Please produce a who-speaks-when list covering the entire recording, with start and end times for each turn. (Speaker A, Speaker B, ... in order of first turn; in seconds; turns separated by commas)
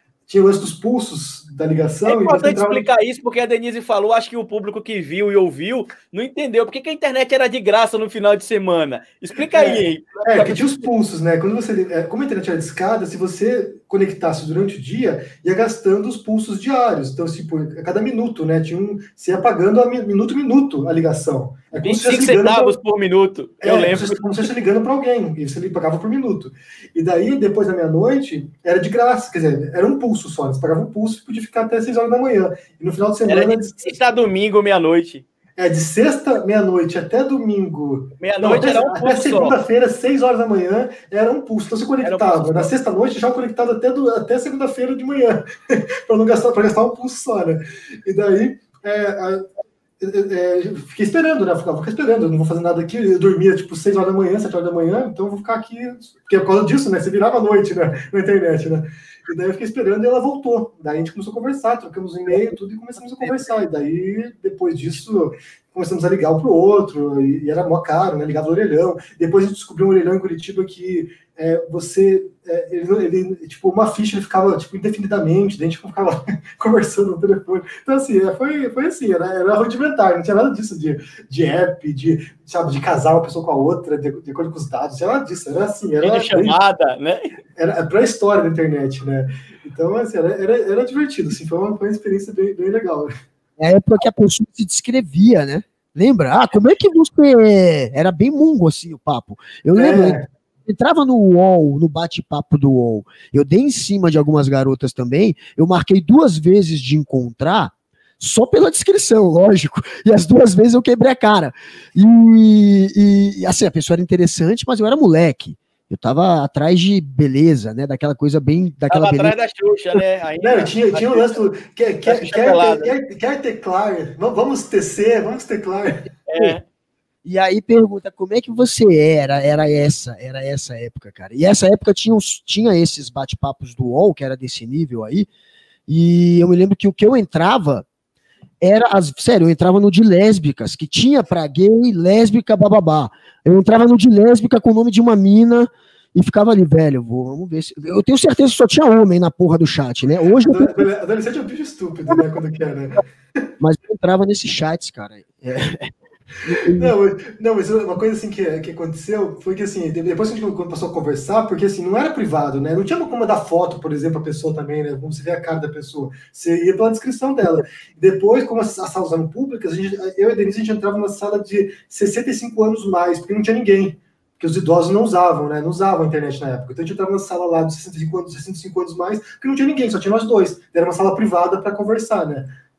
Speaker A: 0.3-2.9, Speaker B: 2.0-10.9, Speaker A: 9.5-22.8, Speaker B: 21.7-24.2, Speaker A: 23.6-34.0, Speaker B: 33.3-35.2, Speaker A: 35.5-45.4, Speaker B: 38.2-39.6, Speaker B: 42.0-42.7, Speaker A: 46.0-49.5, Speaker A: 50.0-86.6, Speaker B: 86.0-87.3, Speaker A: 87.5-93.1, Speaker C: 93.6-119.3, Speaker A: 99.7-100.3, Speaker B: 118.9-121.4, Speaker A: 120.4-126.0, Speaker B: 122.0-122.9, Speaker B: 126.3-126.6, Speaker C: 127.2-135.3, Speaker C: 135.9-137.8, Speaker C: 138.6-150.8, Speaker A: 150.4-153.0, Speaker C: 153.6-155.9, Speaker C: 156.4-156.9, Speaker A: 156.8-182.5